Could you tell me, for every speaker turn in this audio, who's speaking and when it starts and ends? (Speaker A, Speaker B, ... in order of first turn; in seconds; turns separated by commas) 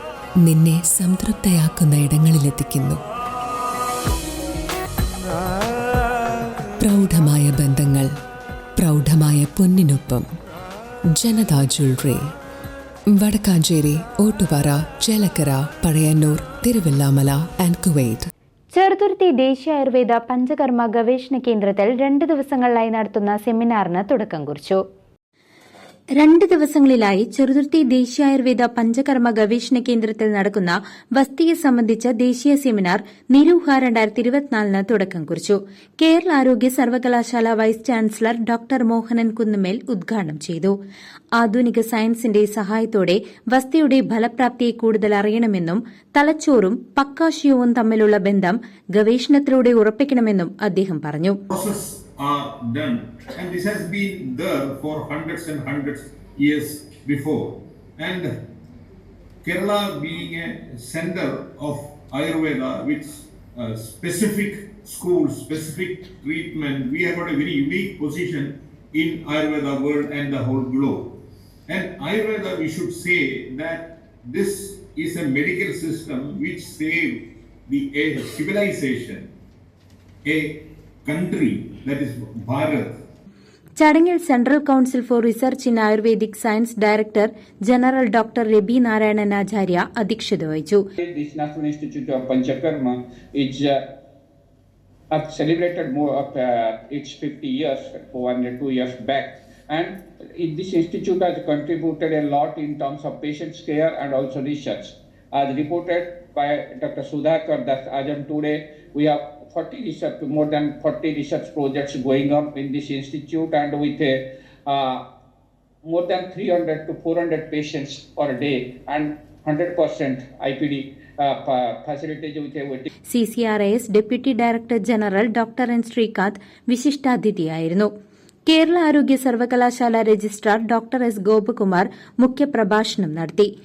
Speaker A: 0.4-3.0, Speaker A: 6.8-8.1, Speaker A: 8.8-10.3, Speaker A: 11.2-12.3, Speaker A: 13.2-18.3, Speaker B: 18.7-24.8, Speaker B: 26.2-40.8, Speaker B: 41.4-51.4, Speaker C: 51.5-58.3, Speaker C: 59.4-71.2, Speaker C: 71.7-79.3, Speaker C: 80.2-83.0, Speaker B: 83.8-90.8, Speaker D: 91.0-93.8, Speaker D: 95.1-115.1, Speaker D: 115.8-122.9, Speaker B: 123.1-127.9, Speaker B: 128.5-133.5